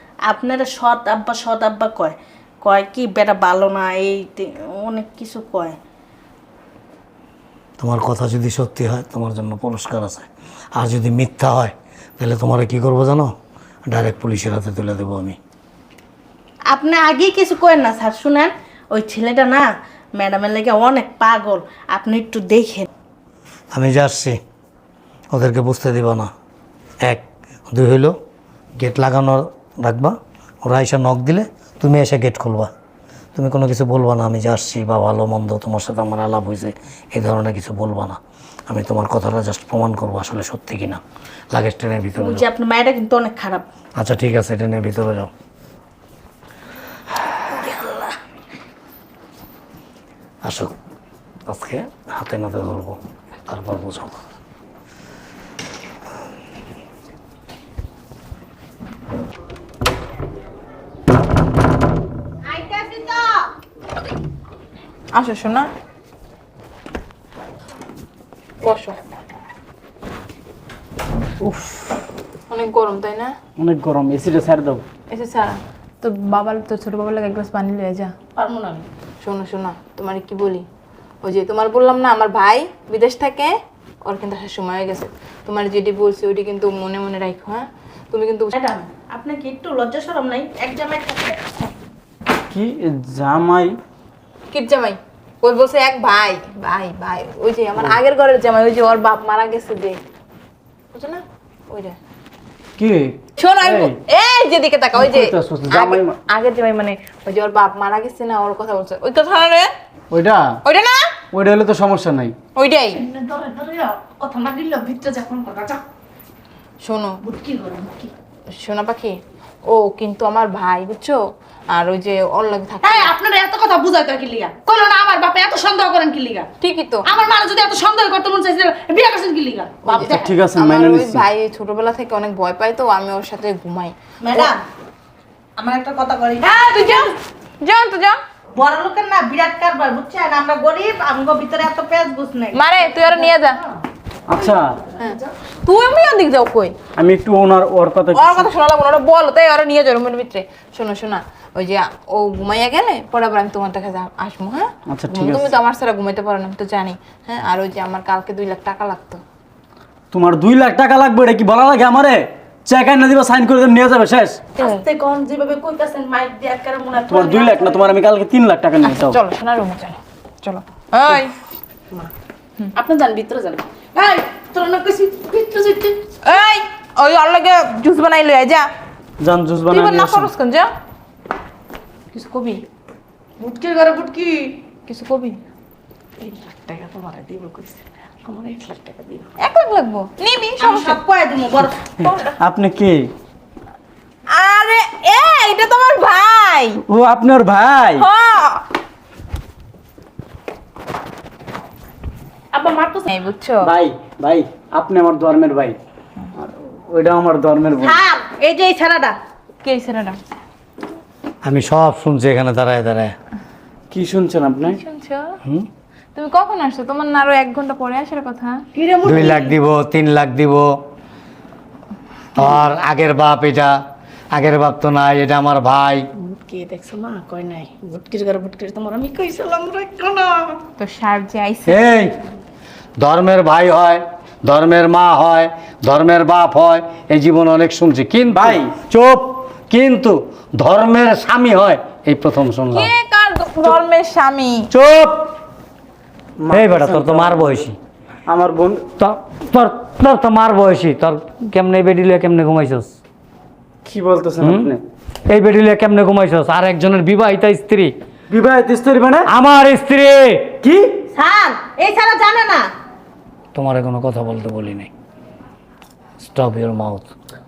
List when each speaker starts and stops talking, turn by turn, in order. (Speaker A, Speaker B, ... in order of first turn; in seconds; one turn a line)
Speaker A: 0.3-5.8
Speaker B: 7.8-13.3
Speaker B: 13.9-15.4
Speaker A: 16.7-22.9
Speaker B: 23.7-24.4
Speaker B: 25.3-26.3
Speaker B: 27.0-28.1
Speaker B: 28.8-32.7
Speaker B: 33.3-42.4
Speaker A: 42.2-43.6
Speaker B: 44.0-45.3
Speaker A: 47.5-48.1
Speaker B: 50.4-50.7
Speaker B: 51.5-54.2
Speaker A: 62.5-63.5
Speaker C: 65.1-65.7
Speaker C: 68.6-69.0
Speaker D: 71.4-71.7
Speaker C: 72.5-73.3
Speaker D: 73.6-74.8
Speaker C: 75.1-78.1
Speaker E: 78.3-78.8
Speaker C: 79.2-80.7
Speaker C: 81.2-88.5
Speaker A: 88.5-91.4
Speaker D: 92.5-93.8
Speaker C: 94.5-100.0
Speaker C: 100.9-102.0
Speaker D: 102.8-104.0
Speaker C: 103.3-109.7
Speaker D: 104.9-106.2
Speaker D: 110.1-110.6
Speaker C: 110.6-111.2
Speaker D: 111.3-112.3
Speaker C: 112.5-113.0
Speaker E: 112.9-115.8
Speaker C: 116.8-117.2
Speaker E: 117.2-118.1
Speaker C: 118.6-123.1
Speaker E: 122.8-126.5
Speaker C: 126.6-127.1
Speaker E: 127.0-130.3
Speaker C: 129.9-133.9
Speaker D: 130.0-131.3
Speaker A: 134.2-134.6
Speaker A: 135.6-137.1
Speaker E: 136.4-137.0
Speaker C: 136.5-138.2
Speaker A: 138.5-143.3
Speaker C: 142.5-143.6
Speaker D: 144.3-144.8
Speaker C: 145.0-146.8
Speaker D: 146.9-148.5
Speaker C: 148.1-159.2
Speaker D: 154.9-155.5
Speaker D: 160.1-164.5
Speaker E: 164.6-168.0
Speaker C: 164.6-164.8
Speaker D: 167.1-169.2
Speaker C: 168.8-171.4
Speaker E: 172.7-176.1
Speaker C: 176.2-178.7
Speaker D: 179.2-180.3
Speaker C: 179.7-180.7
Speaker C: 182.1-182.6
Speaker E: 183.4-184.6
Speaker C: 184.9-185.4
Speaker E: 186.2-189.3
Speaker C: 189.4-191.0
Speaker A: 190.6-191.9
Speaker D: 192.0-193.1
Speaker C: 192.0-192.3
Speaker C: 194.3-196.8
Speaker D: 196.9-198.0
Speaker C: 198.0-198.6
Speaker E: 202.5-203.1
Speaker C: 203.1-203.7
Speaker D: 203.6-205.8
Speaker D: 206.3-208.0
Speaker A: 207.8-209.2
Speaker C: 209.6-210.2
Speaker B: 211.4-213.1
Speaker D: 213.9-214.8
Speaker C: 214.7-215.3
Speaker C: 216.1-218.6
Speaker E: 218.7-219.5
Speaker B: 219.0-220.7
Speaker B: 222.3-223.8
Speaker B: 224.3-226.1
Speaker E: 226.2-230.6
Speaker C: 230.8-232.1
Speaker B: 231.7-232.1
Speaker B: 233.0-242.9
Speaker D: 238.3-238.7
Speaker C: 242.7-244.7
Speaker B: 244.7-245.3
Speaker D: 246.4-247.7
Speaker B: 246.5-247.8
Speaker D: 248.3-248.8
Speaker B: 249.0-252.9
Speaker D: 253.8-254.8
Speaker B: 254.4-254.7
Speaker B: 255.3-257.9
Speaker D: 258.3-259.3
Speaker B: 259.3-260.5
Speaker D: 260.6-260.9
Speaker A: 261.1-262.7
Speaker B: 263.5-264.9
Speaker B: 266.2-267.1